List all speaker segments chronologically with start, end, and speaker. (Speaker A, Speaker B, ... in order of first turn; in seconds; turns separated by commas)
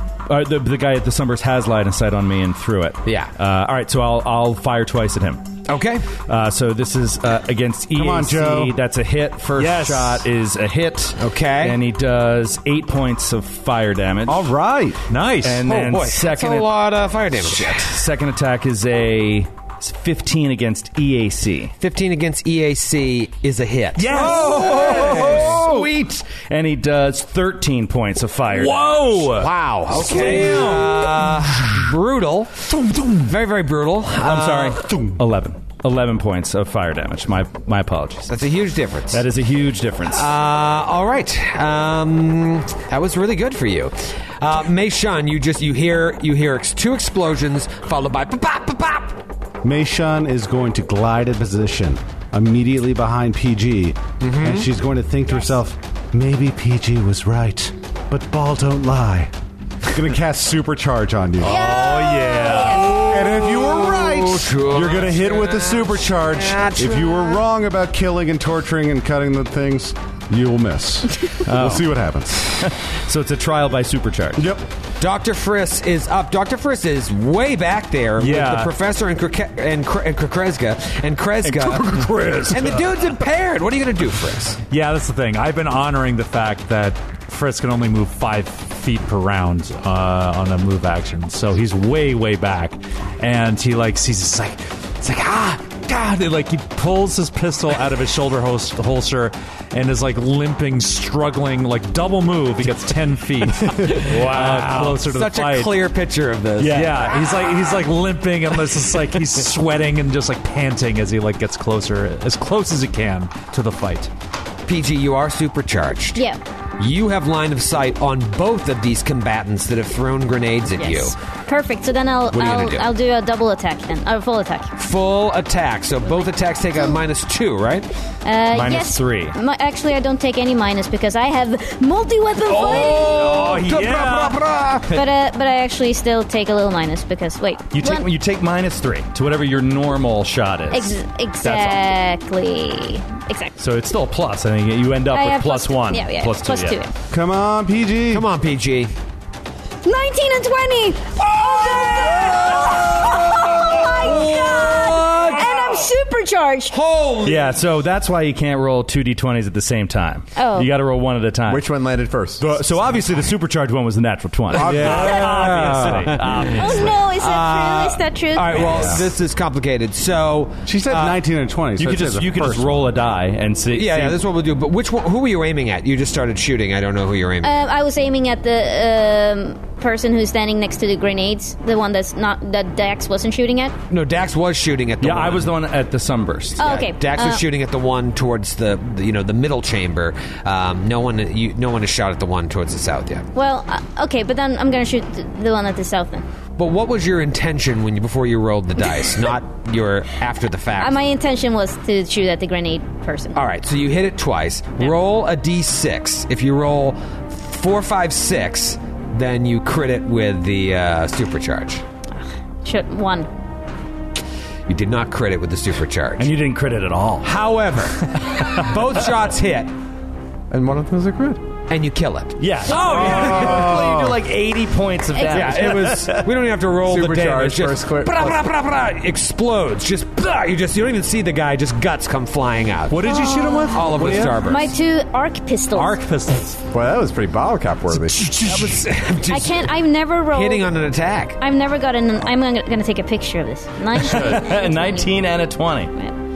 Speaker A: 0.2-5.5, Speaker B: 3.0-3.3, Speaker B: 5.7-6.1, Speaker A: 6.2-14.5, Speaker C: 7.9-8.8, Speaker D: 9.5-10.2, Speaker B: 11.2-11.8, Speaker C: 14.3-15.0, Speaker D: 15.1-15.7, Speaker A: 15.4-16.7, Speaker B: 15.6-18.0, Speaker A: 17.4-21.7, Speaker B: 21.8-26.1, Speaker D: 24.0-25.7, Speaker A: 24.1-29.1, Speaker D: 28.5-31.2, Speaker B: 29.2-32.5, Speaker A: 30.1-30.7, Speaker B: 33.1-34.9, Speaker A: 34.2-38.3, Speaker B: 38.3-39.2, Speaker A: 39.1-40.3, Speaker B: 40.1-49.2, Speaker C: 49.6-59.3, Speaker B: 54.2-54.7, Speaker C: 59.9-61.7, Speaker B: 61.4-67.4, Speaker E: 61.4-63.0, Speaker A: 62.2-62.8, Speaker C: 63.0-72.6, Speaker A: 71.4-71.9, Speaker A: 72.5-74.5, Speaker C: 74.4-74.6, Speaker B: 75.0-82.0, Speaker A: 78.2-78.7, Speaker A: 81.7-82.5, Speaker D: 81.9-82.8, Speaker B: 82.5-84.6, Speaker D: 84.7-105.8, Speaker A: 103.6-105.0, Speaker B: 105.0-107.3, Speaker D: 106.6-114.1, Speaker B: 114.7-116.2, Speaker B: 116.8-121.1, Speaker E: 120.8-124.7, Speaker B: 122.3-122.9, Speaker B: 124.8-127.9, Speaker E: 128.2-133.2, Speaker A: 128.5-129.4, Speaker B: 132.4-134.9, Speaker A: 132.6-134.4, Speaker D: 133.1-134.3, Speaker E: 134.9-138.1, Speaker A: 137.7-141.8, Speaker E: 140.7-143.6, Speaker A: 143.6-146.8, Speaker E: 145.1-146.9, Speaker C: 147.1-148.3, Speaker B: 148.1-148.9, Speaker E: 149.8-156.7, Speaker B: 151.5-155.9, Speaker A: 154.0-155.4, Speaker B: 156.7-157.6, Speaker A: 157.2-161.7, Speaker E: 160.3-160.7, Speaker F: 161.4-162.6, Speaker A: 162.4-166.9, Speaker F: 164.5-165.9, Speaker C: 164.6-166.1, Speaker B: 165.2-171.2, Speaker E: 166.5-169.0, Speaker C: 168.5-169.0, Speaker C: 170.7-172.9, Speaker A: 171.8-174.2, Speaker B: 173.7-177.6, Speaker E: 177.4-183.7, Speaker B: 183.9-185.5, Speaker A: 185.0-186.7, Speaker E: 186.6-187.4, Speaker B: 186.6-193.3, Speaker E: 193.3-196.2, Speaker B: 196.6-201.0, Speaker E: 200.8-203.4, Speaker B: 203.3-211.8, Speaker E: 212.6-213.3, Speaker B: 214.7-216.3, Speaker A: 216.2-217.3, Speaker B: 217.2-219.7, Speaker A: 218.1-218.7, Speaker F: 220.5-221.4, Speaker B: 221.7-223.6, Speaker A: 222.4-226.3, Speaker D: 222.8-223.1, Speaker F: 222.9-224.0, Speaker C: 223.1-224.2, Speaker E: 225.1-225.6, Speaker B: 225.3-233.1, Speaker F: 226.8-228.4, Speaker D: 232.9-234.6, Speaker E: 233.0-236.0, Speaker B: 233.7-234.7, Speaker D: 235.7-236.6, Speaker F: 236.7-238.6, Speaker B: 238.4-239.7, Speaker E: 239.3-240.7, Speaker B: 240.3-241.4, Speaker E: 241.4-245.1, Speaker A: 243.9-245.9